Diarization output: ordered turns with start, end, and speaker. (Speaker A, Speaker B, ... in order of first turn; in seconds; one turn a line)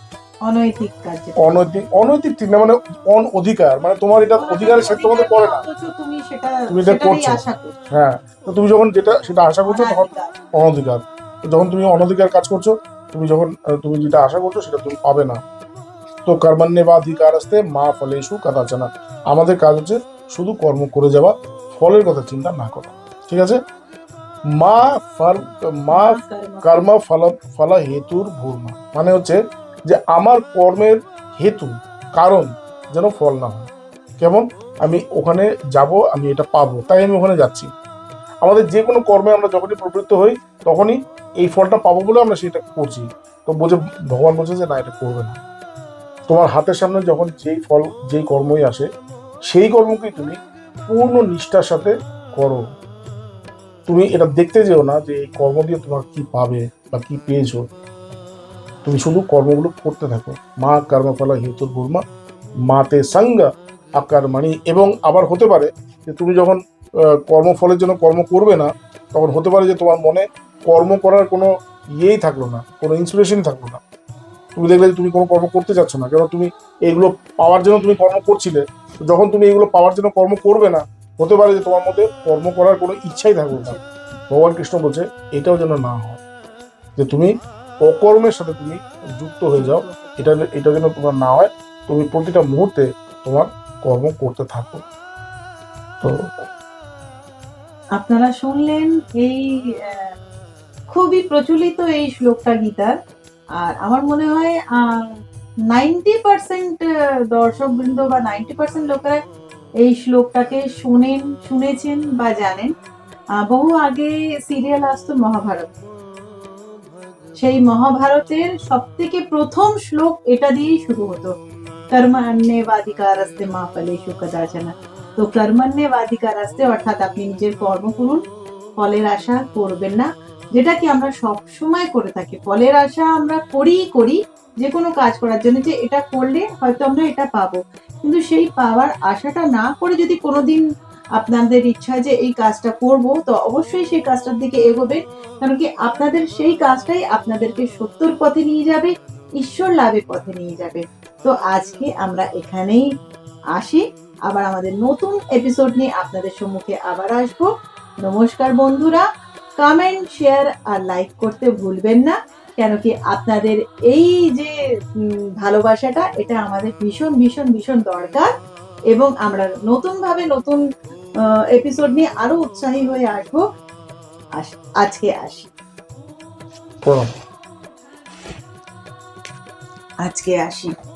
Speaker A: 0.5-1.4
Speaker B: 1.4-5.6
Speaker A: 4.4-7.8
Speaker B: 6.7-15.4
Speaker A: 9.7-10.3
Speaker B: 16.2-23.6
Speaker B: 24.6-33.7
Speaker A: 25.9-26.9
Speaker B: 34.2-37.7
Speaker B: 38.4-45.4
Speaker B: 46.3-48.9
Speaker B: 49.5-50.4
Speaker B: 50.9-52.6
Speaker B: 53.9-57.6
Speaker B: 58.8-62.0
Speaker B: 62.7-73.8
Speaker B: 74.5-83.8
Speaker A: 83.5-83.8
Speaker B: 84.3-86.2
Speaker B: 87.0-87.3
Speaker B: 87.8-94.8
Speaker A: 89.5-90.2
Speaker A: 98.0-100.1
Speaker A: 100.9-102.9
Speaker A: 103.6-105.1
Speaker A: 105.7-109.2
Speaker A: 109.8-112.7
Speaker A: 113.4-115.7
Speaker A: 117.4-121.3
Speaker A: 121.9-128.2
Speaker A: 128.8-140.6
Speaker A: 141.2-152.9
Speaker A: 153.6-157.5
Speaker A: 158.0-159.1
Speaker A: 159.6-168.3
Speaker A: 168.9-170.6
Speaker A: 171.5-173.4
Speaker A: 174.4-175.5
Speaker B: 176.8-177.1
Speaker A: 180.0-180.7